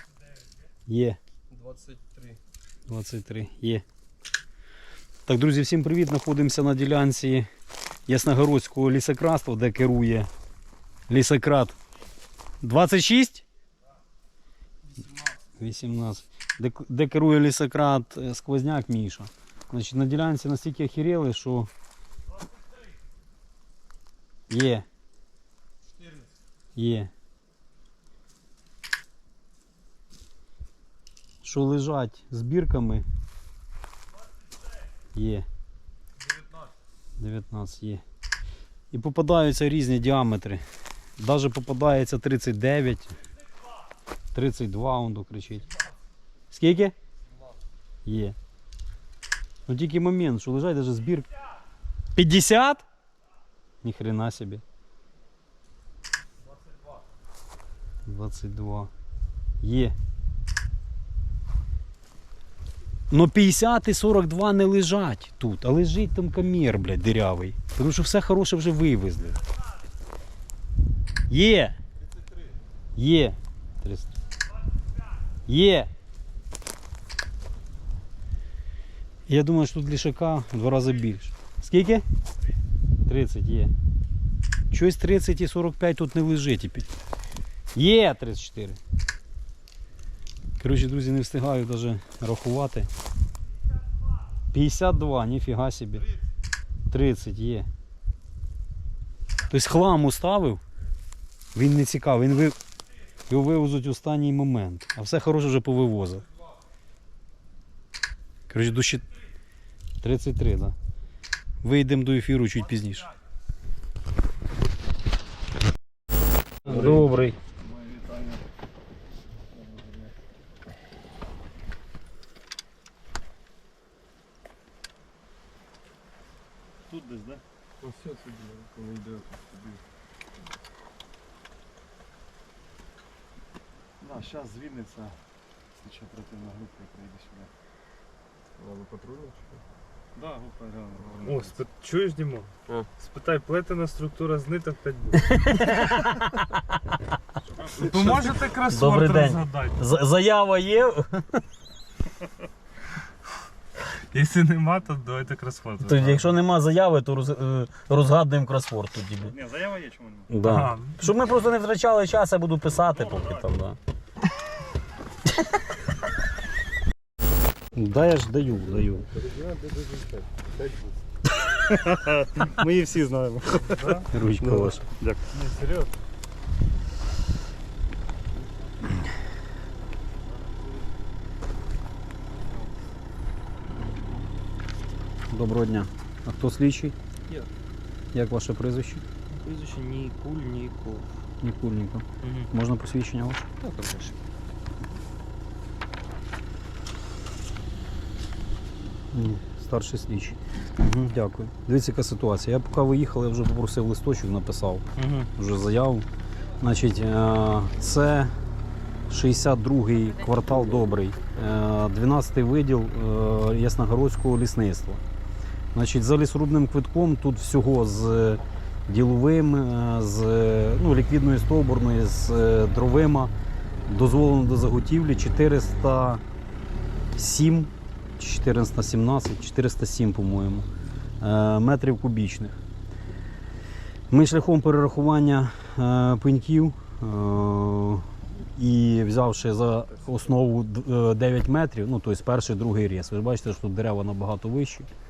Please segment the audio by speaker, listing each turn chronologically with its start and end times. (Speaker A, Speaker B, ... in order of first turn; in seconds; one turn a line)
Speaker A: 0.9-1.2
Speaker B: 1.5-2.4
Speaker A: 2.9-3.9
Speaker A: 5.3-7.5
Speaker A: 8.1-10.3
Speaker A: 11.1-11.8
Speaker A: 12.6-13.4
Speaker A: 15.6-21.7
Speaker A: 24.5-24.9
Speaker A: 26.8-27.1
Speaker A: 31.4-33.0
Speaker A: 35.1-35.5
Speaker A: 37.2-38.0
Speaker A: 38.9-40.6
Speaker A: 41.2-43.1
Speaker A: 44.3-45.7
Speaker A: 46.5-46.9
Speaker A: 48.1-48.4
Speaker A: 49.7-51.3
Speaker A: 52.2-52.9
Speaker A: 53.8-54.6
Speaker A: 58.1-58.9
Speaker A: 59.6-60.0
Speaker A: 63.1-69.4
Speaker A: 71.3-71.8
Speaker A: 73.0-74.1
Speaker A: 75.5-75.9
Speaker A: 79.3-82.0
Speaker A: 83.0-83.7
Speaker A: 84.7-86.9
Speaker A: 87.8-88.8
Speaker A: 90.6-92.9
Speaker A: 94.5-96.1
Speaker A: 96.9-97.7
Speaker A: 99.5-100.6
Speaker A: 101.5-102.6
Speaker A: 103.3-106.2
Speaker A: 108.5-109.0
Speaker A: 110.0-110.8
Speaker A: 111.6-113.1
Speaker A: 116.7-117.4
Speaker C: 126.9-127.4
Speaker B: 127.8-129.7
Speaker C: 134.0-135.2
Speaker C: 135.8-137.5
Speaker B: 138.6-139.6
Speaker C: 140.2-141.4
Speaker D: 141.2-145.9
Speaker A: 145.2-146.6
Speaker A: 147.7-151.4
Speaker D: 147.8-149.8
Speaker D: 153.9-156.3
Speaker A: 155.8-159.4
Speaker C: 159.6-160.3
Speaker A: 160.3-163.8
Speaker D: 160.4-161.0
Speaker A: 167.7-169.1
Speaker B: 169.1-170.4
Speaker A: 171.7-175.2
Speaker D: 173.8-174.7
Speaker D: 175.3-175.9
Speaker A: 185.3-186.9
Speaker A: 188.1-189.0
Speaker E: 189.3-191.2
Speaker A: 191.4-193.5
Speaker E: 192.2-192.5
Speaker E: 193.6-194.2
Speaker A: 199.1-204.8
Speaker E: 205.0-205.3
Speaker A: 205.4-206.1
Speaker A: 206.6-208.3
Speaker A: 209.1-215.0
Speaker A: 215.7-223.3
Speaker A: 223.9-226.2
Speaker A: 227.2-230.7
Speaker A: 231.2-232.6
Speaker A: 234.1-244.9